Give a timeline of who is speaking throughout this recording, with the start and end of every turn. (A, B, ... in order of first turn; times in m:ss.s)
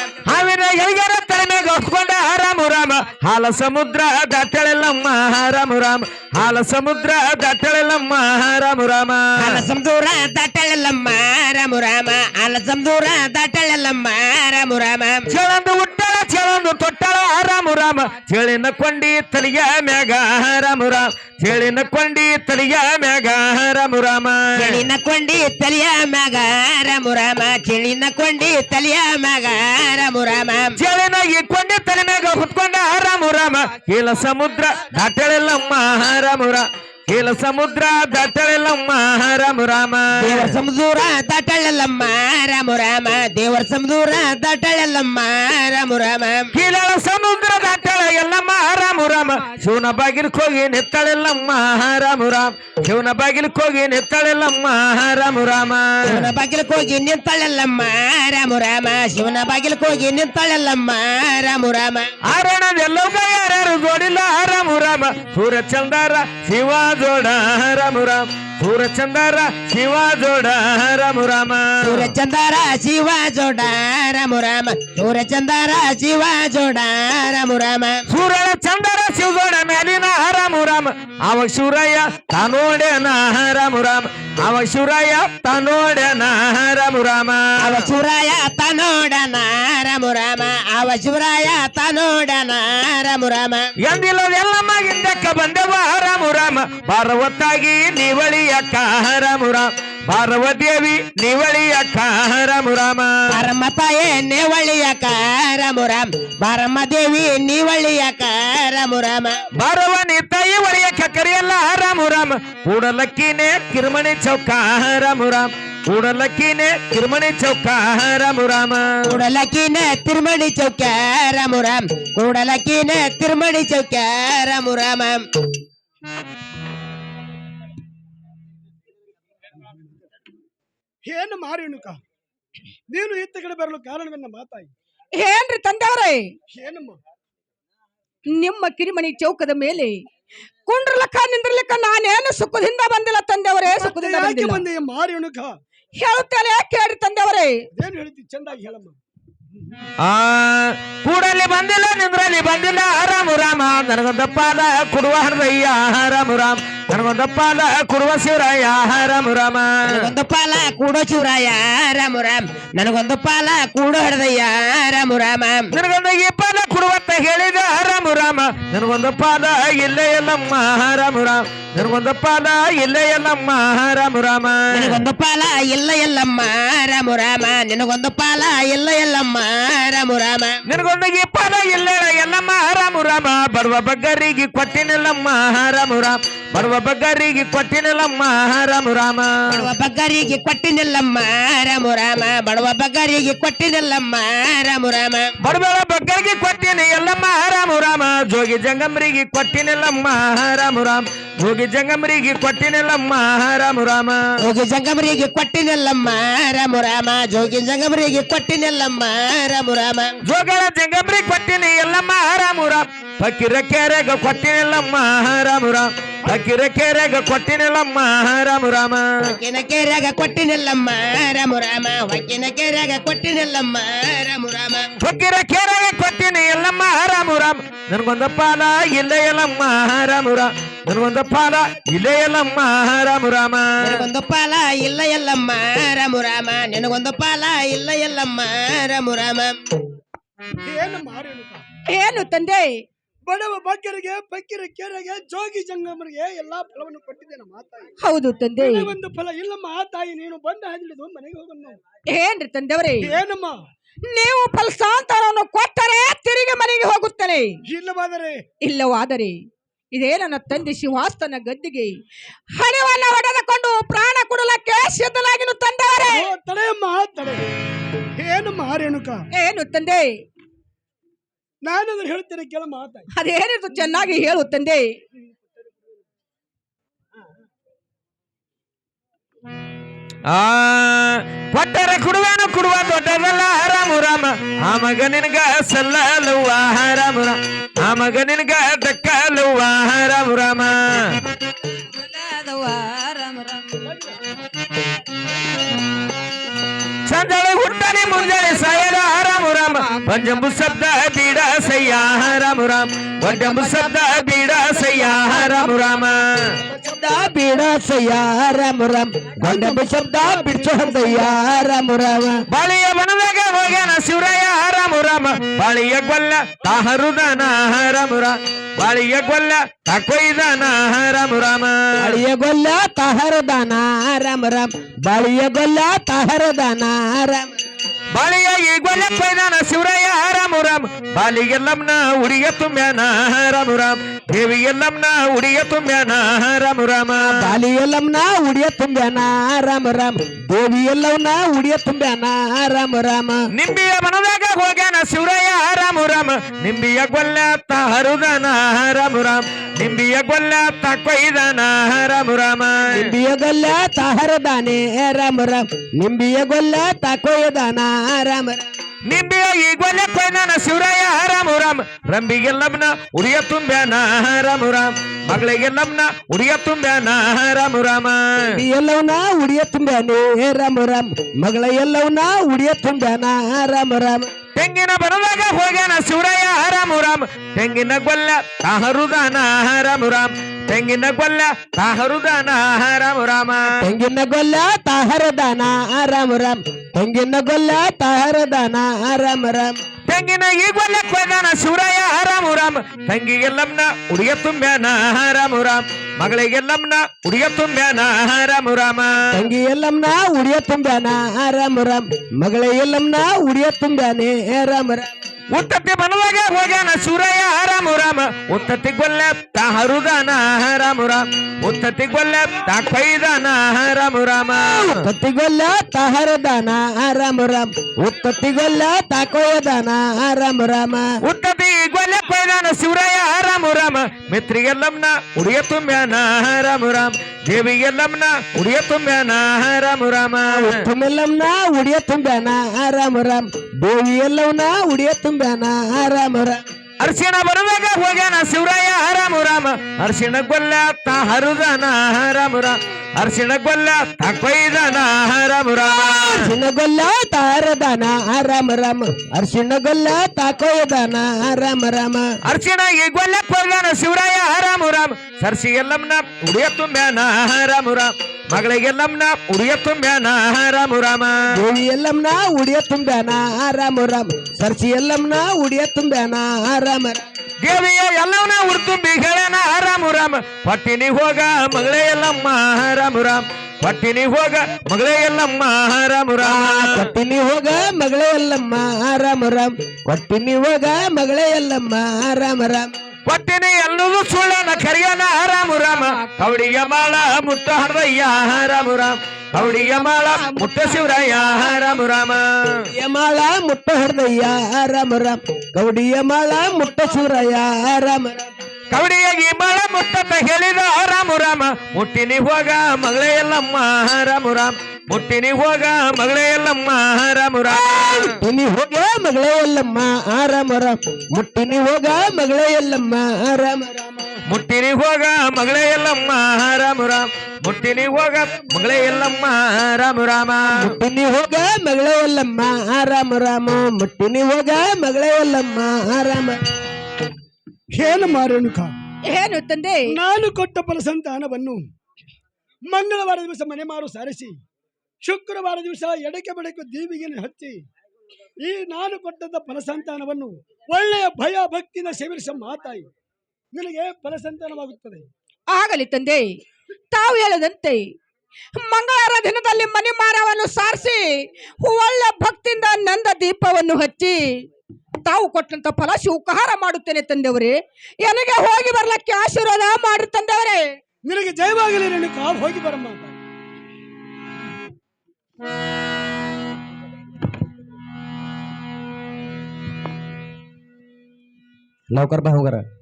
0:00.2-0:09.7 A
0:09.4-0:15.3 B
0:15.3-0:24.9 A
0:24.6-0:30.8 B
0:30.8-0:40.5 A
0:40.2-0:46.5 B
0:46.5-0:56.3 A
0:49.2-0:49.6 C
0:56.0-1:02.1 B
1:02.3-1:12.1 A
1:11.8-1:18.0 B
1:18.1-1:27.9 A
1:27.6-1:33.7 B
1:33.8-1:43.2 A
1:43.3-1:49.3 B
1:49.6-1:59.2 A
1:59.1-2:05.2 B
2:11.1-2:12.0 D
2:12.9-2:14.7 D
2:15.2-2:16.3 C
2:16.5-2:17.0 D
2:18.3-2:20.0 C
2:20.7-2:24.6 C
2:23.6-2:25.6 D
2:26.0-2:27.5 C
2:27.8-2:29.0 D
2:30.0-2:40.1 A
2:39.9-2:45.7 B
2:45.7-2:55.0 A
2:54.7-3:00.6 B
3:00.7-3:09.6 A
3:09.5-3:15.3 B
3:15.4-3:24.2 A
3:24.4-3:30.2 B
3:30.2-3:39.1 A
3:39.2-3:45.0 B
3:45.0-3:54.0 A
3:53.8-3:59.6 B
4:00.6-4:01.6 D
4:01.9-4:02.8 C
4:03.2-4:07.9 D
4:08.0-4:08.9 C
4:08.6-4:11.8 D
4:12.1-4:13.2 C
4:13.0-4:13.6 D
4:14.1-4:17.6 C
4:17.7-4:18.4 D
4:18.6-4:19.4 C
4:19.9-4:22.0 C
4:22.6-4:26.3 C
4:26.1-4:27.4 D
4:28.2-4:29.2 D
4:29.3-4:30.1 C
4:31.6-4:33.1 D
4:33.2-4:34.9 C
4:40.3-4:51.2 A
4:53.8-4:54.2 D
4:57.1-5:06.5 A
4:58.5-4:59.0 C
4:59.7-5:00.2 C
5:03.3-5:03.9 C
5:04.6-5:05.6 D
5:06.6-5:07.0 D
5:07.0-5:12.4 E
5:09.5-5:11.4 D
5:12.5-5:22.2 A
5:22.0-5:27.5 E
5:28.1-5:37.5 A
5:37.2-5:43.4 E
5:43.5-5:53.1 A
5:52.9-5:58.6 E
5:59.1-6:08.5 A
6:08.5-6:14.3 E
6:14.6-6:23.8 A
6:23.8-6:29.8 E
6:30.1-6:39.2 A
6:39.3-6:45.1 E
6:45.5-6:55.0 A
6:54.9-7:01.1 E
7:01.2-7:10.9 A
7:10.5-7:16.6 E
7:17.0-7:26.5 A
7:26.1-7:32.3 E
7:32.5-7:41.4 A
7:41.5-7:47.2 E
7:47.6-7:57.0 A
7:56.4-8:02.9 E
8:03.3-8:12.9 A
8:09.6-8:11.6 C
8:12.9-8:18.5 E
8:18.9-8:28.4 A
8:27.7-8:33.9 E
8:34.0-8:34.3 D
8:34.5-8:40.9 A
8:38.1-8:39.3 D
8:40.8-8:46.6 E
8:48.0-8:48.9 D
8:49.3-8:50.2 C
8:50.1-8:51.8 D
8:52.9-8:54.6 D
8:55.2-8:57.8 D
8:58.6-9:03.1 D
9:03.7-9:05.3 D
9:05.7-9:06.6 C
9:07.1-9:08.1 C
9:08.8-9:14.6 C
9:15.2-9:20.9 C
9:21.2-9:23.4 D
9:32.1-9:32.8 E